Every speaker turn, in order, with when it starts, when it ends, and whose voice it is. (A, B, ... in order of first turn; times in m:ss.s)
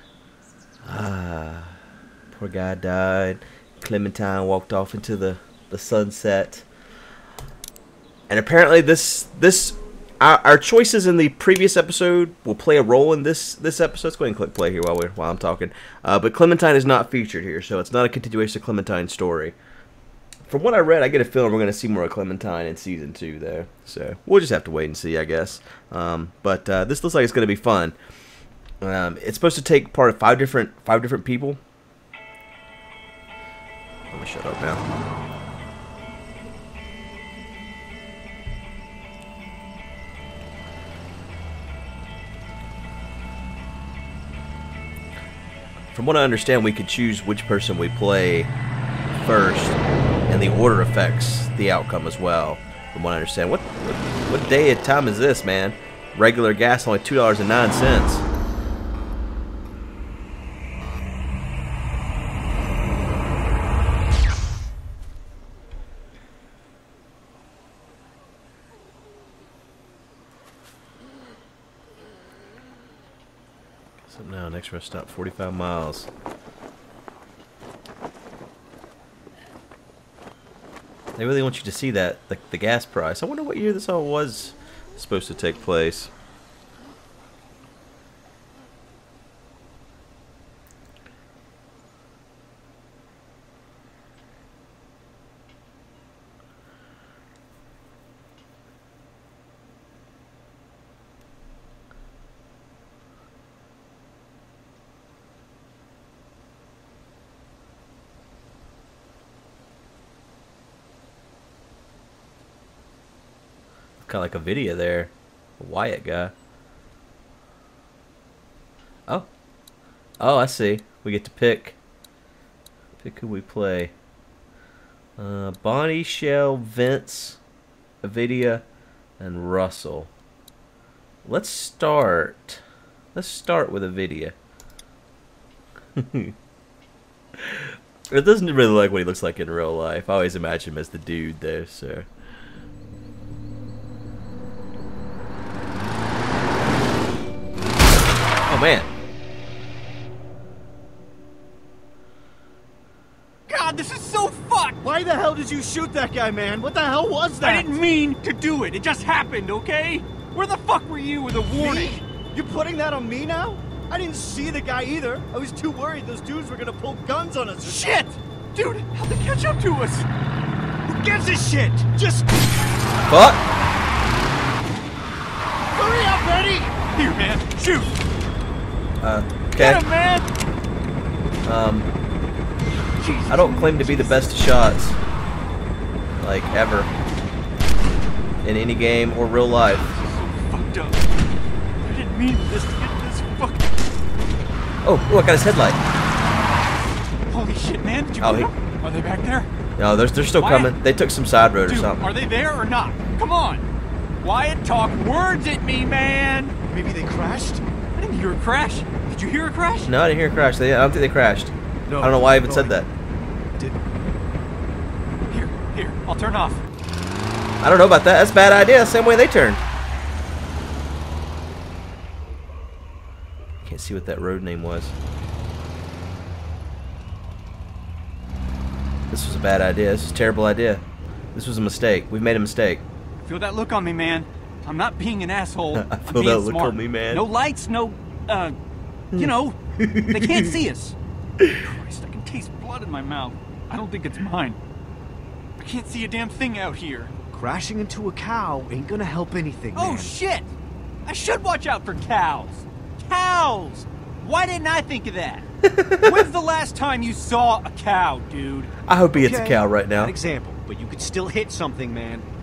0:00.8-0:01.8 A
0:02.3-0:06.7 A
0:08.3-0:19.6 A
0:20.5-0:28.0 A
0:28.8-0:31.6 A
0:34.1-0:34.8 A
0:45.9-0:48.5 A
0:49.2-0:58.2 A
1:14.0-1:16.1 A
1:21.2-1:26.1 A
1:54.0-1:56.3 A
2:00.2-2:01.8 A
2:03.0-2:03.9 A
2:05.2-2:07.4 A
2:08.0-2:08.6 A
2:09.2-2:10.1 A
2:11.2-2:12.6 A
2:13.1-2:14.4 A
2:16.0-2:16.3 A
2:17.4-2:22.1 A
2:28.5-2:28.9 A
2:33.5-2:34.8 B
2:34.8-2:37.8 C
2:37.4-2:42.0 B
2:41.5-2:48.0 C
2:47.6-2:50.1 B
2:50.9-2:52.4 C
2:53.1-2:53.4 A
2:55.7-2:56.7 C
2:56.9-2:58.0 B
2:59.0-2:59.8 A
2:59.6-3:00.3 B
3:01.4-3:01.9 A
3:03.0-3:04.4 B
3:03.3-3:05.0 A
3:06.2-3:06.9 A
3:08.4-3:09.9 A
3:09.6-3:11.1 B
3:11.8-3:13.8 B
3:14.8-3:15.8 A
3:17.3-3:19.5 B
3:18.2-3:18.5 A
3:19.8-3:22.1 A
3:20.4-3:20.8 B
3:21.7-3:23.7 B
3:24.2-3:26.5 B
3:26.7-3:27.6 C
3:28.0-3:29.9 B
3:29.9-3:32.9 A
3:31.9-3:32.8 C
3:35.2-3:36.6 B
3:37.6-3:39.6 A
3:43.6-3:45.0 A
3:49.1-3:50.8 A
3:51.4-3:52.8 A
3:53.2-3:58.6 B
3:55.7-3:57.3 A
3:59.1-4:00.6 A
3:59.1-4:01.0 B
4:01.6-4:04.6 B
4:05.6-4:07.1 B
4:07.3-4:10.2 C
4:09.8-4:15.5 B
4:15.6-4:16.2 A
4:16.0-4:18.7 B
4:18.9-4:20.1 A
4:19.1-4:22.3 C